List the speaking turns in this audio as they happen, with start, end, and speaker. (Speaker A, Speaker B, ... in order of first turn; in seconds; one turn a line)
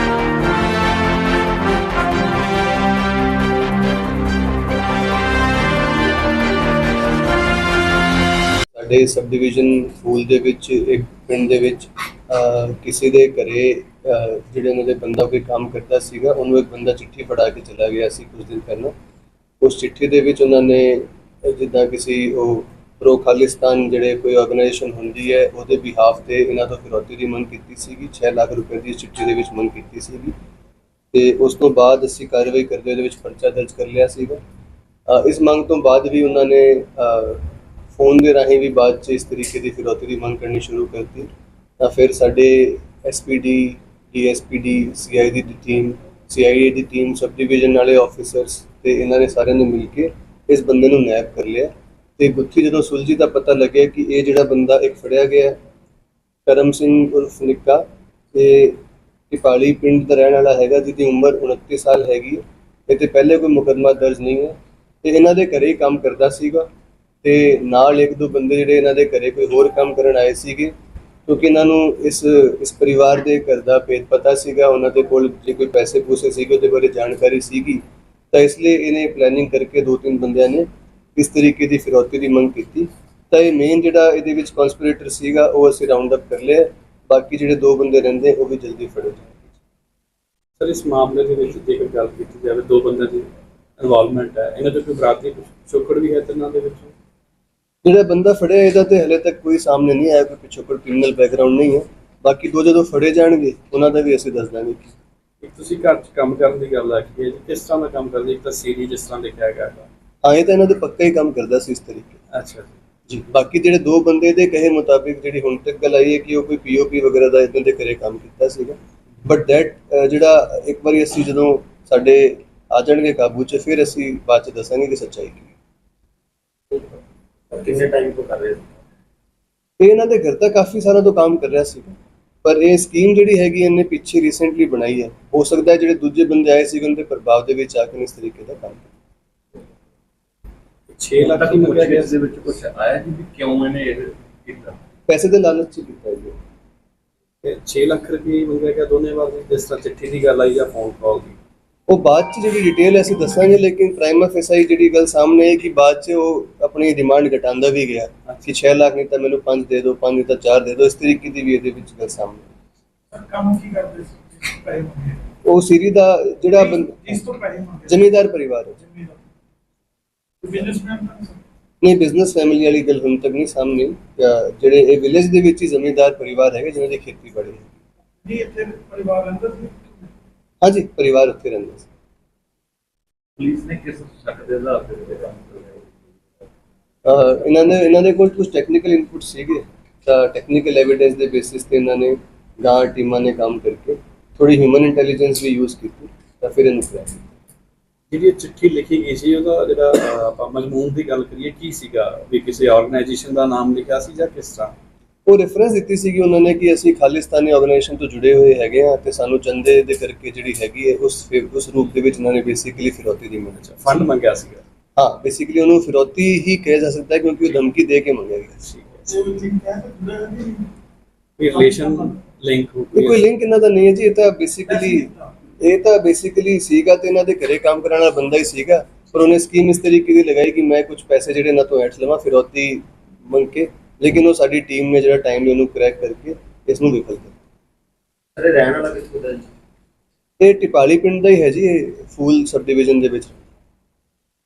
Speaker A: 8.8-18.9
Speaker A: 19.6-30.3
Speaker A: 31.1-34.4
Speaker A: 35.1-37.4
Speaker A: 37.9-55.5
Speaker A: 56.5-58.8
Speaker A: 59.3-66.7
Speaker A: 67.2-70.7
Speaker A: 71.3-89.5
Speaker B: 90.6-96.9
Speaker A: 97.8-104.9
Speaker B: 105.4-109.9
Speaker A: 110.2-112.2
Speaker B: 112.3-112.8
Speaker A: 113.1-125.5
Speaker C: 127.5-128.7
Speaker A: 129.8-138.9
Speaker B: 140.9-142.1
Speaker C: 141.2-144.8
Speaker A: 145.1-146.3
Speaker B: 147.4-151.4
Speaker A: 151.9-162.5
Speaker D: 163.1-165.2
Speaker A: 165.4-167.3
Speaker D: 166.6-168.0
Speaker A: 167.9-168.8
Speaker D: 168.9-169.2
Speaker D: 170.4-171.4
Speaker A: 171.8-177.7
Speaker D: 178.2-179.9
Speaker A: 180.6-181.9
Speaker C: 183.4-186.4
Speaker A: 187.1-197.3
Speaker B: 198.1-204.7
Speaker A: 205.3-213.8
Speaker B: 213.6-214.6
Speaker A: 215.0-218.6
Speaker B: 218.6-219.3
Speaker D: 219.1-220.7
Speaker B: 221.4-223.2
Speaker D: 221.5-222.0
Speaker A: 222.9-237.4
Speaker C: 238.4-239.5
Speaker A: 240.4-243.4